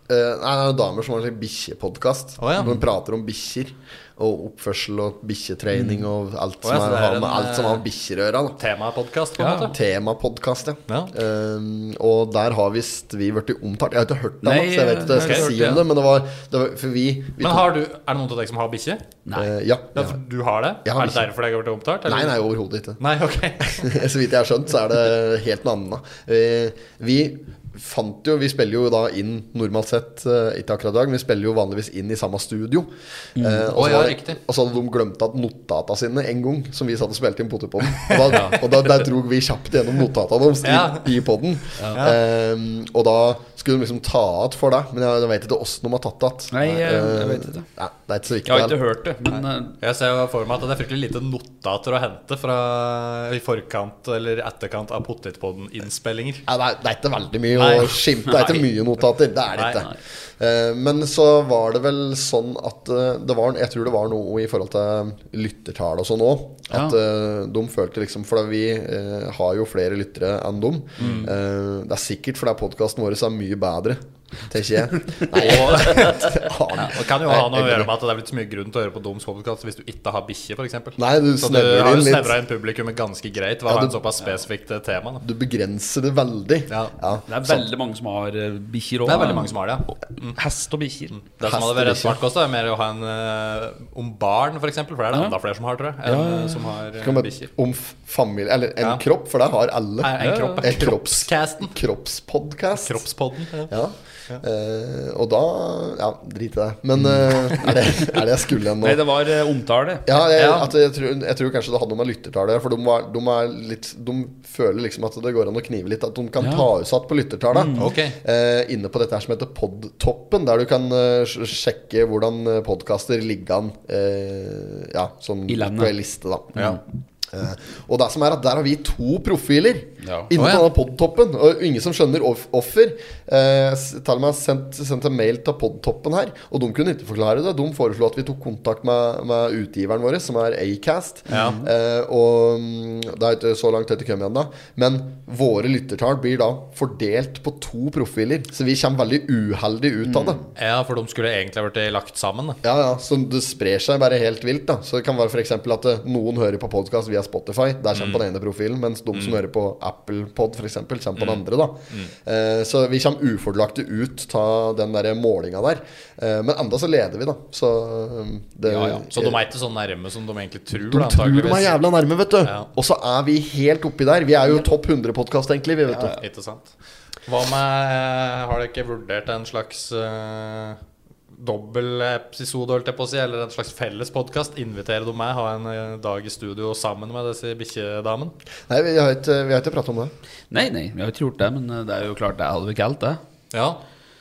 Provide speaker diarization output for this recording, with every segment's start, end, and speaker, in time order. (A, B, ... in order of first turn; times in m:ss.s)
0:00.1-0:08.6 A
0:02.4-0:02.8 B
0:05.7-0:06.1 C
0:06.6-0:07.8 B
0:08.6-0:09.8 B
0:09.4-0:09.7 C
0:09.7-0:17.7 A
0:10.9-0:11.1 B
0:14.4-0:15.8 C
0:15.1-0:15.6 B
0:17.4-0:19.0 B
0:19.3-0:19.5 C
0:19.4-0:20.2 A
0:20.0-0:22.4 B
0:20.8-0:21.3 A
0:22.1-0:23.0 A
0:23.0-0:24.0 B
0:23.6-0:48.8 A
0:33.4-0:33.8 C
0:33.8-0:34.4 B
0:38.0-0:38.5 B
0:40.6-0:41.2 B
0:41.9-0:42.2 B
0:46.5-0:47.6 C
0:48.4-0:49.8 C
0:49.8-0:56.4 B
0:56.5-1:17.9 A
0:57.5-0:58.0 B
0:58.3-0:58.6 C
0:59.6-0:59.8 B
1:06.7-1:07.0 C
1:11.0-1:11.3 B
1:11.0-1:11.3 C
1:15.1-1:16.1 C
1:15.3-1:25.2 B
1:21.0-1:22.4 A
1:23.7-1:24.0 A
1:25.2-1:27.7 A
1:27.3-1:29.6 C
1:29.1-1:30.4 B
1:30.2-1:31.2 C
1:31.1-1:37.5 B
1:31.4-1:32.2 A
1:35.1-1:35.4 C
1:36.0-1:36.7 C
1:37.0-1:43.0 A
1:40.0-1:41.7 B
1:40.2-1:40.7 C
1:42.8-1:43.7 B
1:43.7-1:49.0 A
1:47.0-1:48.2 C
1:48.8-1:50.0 C
1:50.1-2:06.6 A
1:50.4-1:50.7 B
1:56.4-1:56.7 C
1:57.5-1:57.9 C
1:57.8-1:58.2 B
2:05.5-2:06.0 C
2:06.5-2:06.8 C
2:07.3-2:30.4 A
2:10.0-2:10.3 C
2:10.4-2:10.7 B
2:21.3-2:21.6 B
2:21.3-2:21.7 C
2:30.6-2:32.6 B
2:32.6-2:49.4 A
2:37.9-2:38.2 B
2:39.1-2:39.4 B
2:41.2-2:42.1 B
2:48.7-2:49.0 C
2:49.1-2:51.8 B
2:50.7-2:56.2 A
2:52.4-2:52.7 B
2:55.9-2:56.2 C
2:56.2-2:56.7 B
2:57.3-3:00.8 B
3:01.3-3:08.3 B
3:08.7-3:10.1 A
3:10.5-3:13.2 C
3:13.5-3:13.8 B